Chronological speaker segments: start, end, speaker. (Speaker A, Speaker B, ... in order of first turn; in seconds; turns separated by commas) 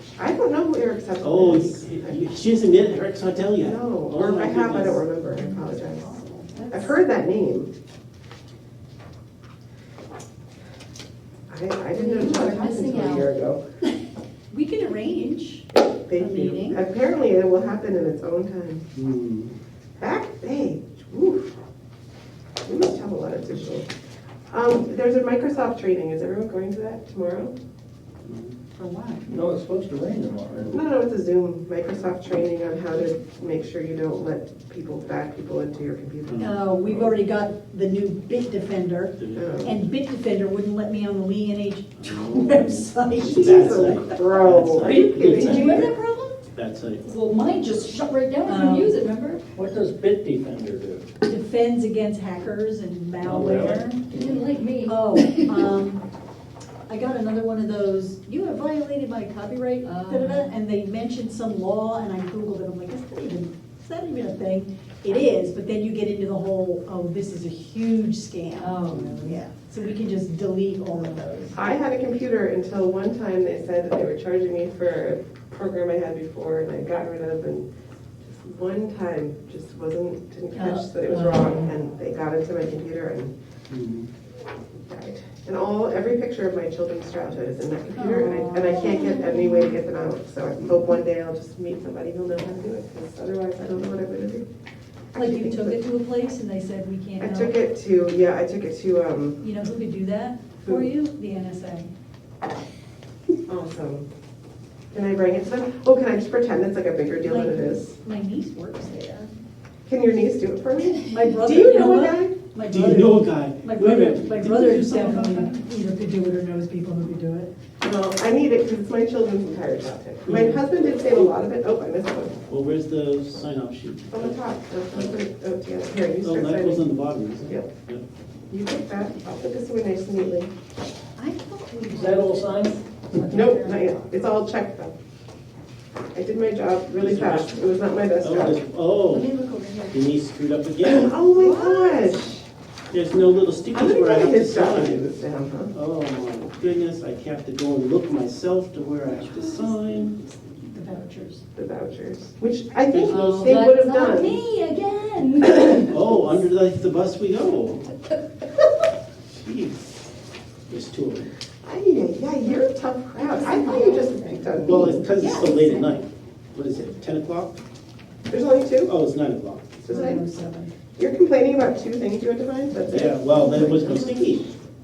Speaker A: 0.2-2.2, Speaker B: 1.2-5.0, Speaker A: 3.6-6.1, Speaker C: 6.0-6.7, Speaker D: 6.6-6.9, Speaker A: 6.7-7.7, Speaker A: 11.5-13.6, Speaker D: 11.9-13.3, Speaker C: 14.5-16.8, Speaker A: 15.8-18.9, Speaker B: 18.9-19.5, Speaker A: 20.0-21.5, Speaker A: 22.6-23.9, Speaker A: 24.5-27.5, Speaker B: 28.2-28.5, Speaker C: 28.8-29.3, Speaker E: 29.3-30.8, Speaker A: 30.7-37.1, Speaker B: 36.3-36.6, Speaker C: 36.4-43.9, Speaker B: 39.2-39.7, Speaker A: 39.4-39.8, Speaker B: 42.0-45.9, Speaker A: 43.2-45.9, Speaker E: 44.8-45.8, Speaker C: 45.3-46.3, Speaker D: 45.5-45.9, Speaker B: 46.5-47.0, Speaker D: 47.0-49.4, Speaker C: 48.5-48.9, Speaker E: 49.6-51.1, Speaker C: 51.2-54.0, Speaker E: 53.2-54.4, Speaker D: 54.1-55.6, Speaker C: 54.9-56.0, Speaker C: 56.9-71.6, Speaker D: 59.8-60.5, Speaker D: 68.6-69.4, Speaker A: 71.5-77.7, Speaker A: 78.2-83.3, Speaker C: 80.5-81.7, Speaker B: 83.7-84.1, Speaker A: 84.9-94.5, Speaker B: 88.0-88.6, Speaker C: 88.3-88.9, Speaker D: 88.9-89.8, Speaker A: 95.1-95.8, Speaker C: 95.2-97.5, Speaker A: 97.2-99.4, Speaker C: 99.4-101.9, Speaker A: 100.6-100.9, Speaker A: 103.5-104.1, Speaker A: 104.9-107.9, Speaker C: 107.2-109.3, Speaker A: 109.9-112.3, Speaker C: 111.1-117.5, Speaker B: 112.7-115.5, Speaker A: 117.8-122.4, Speaker B: 120.3-120.6, Speaker B: 122.5-125.1, Speaker A: 124.1-126.8, Speaker B: 126.2-128.0, Speaker A: 127.5-127.7, Speaker A: 128.5-130.5, Speaker C: 131.2-134.2, Speaker E: 131.9-132.8, Speaker A: 133.3-134.9, Speaker A: 136.1-138.6, Speaker B: 137.0-137.7, Speaker B: 138.2-139.3, Speaker D: 139.1-140.0, Speaker B: 139.9-141.2, Speaker A: 140.8-142.5, Speaker D: 141.4-142.1, Speaker B: 142.9-145.1, Speaker A: 143.7-145.7, Speaker B: 145.7-150.2, Speaker C: 149.1-149.7, Speaker C: 150.2-151.4, Speaker A: 151.6-154.4, Speaker B: 152.8-153.6, Speaker D: 153.1-156.3, Speaker B: 155.9-157.9, Speaker B: 159.3-160.1, Speaker B: 160.7-161.3, Speaker A: 161.6-165.1, Speaker D: 163.2-165.8, Speaker B: 164.7-167.6, Speaker C: 165.2-165.5, Speaker A: 168.3-168.9, Speaker B: 168.9-169.8, Speaker A: 169.8-170.3, Speaker C: 169.9-170.7, Speaker A: 171.0-174.3, Speaker B: 172.8-174.5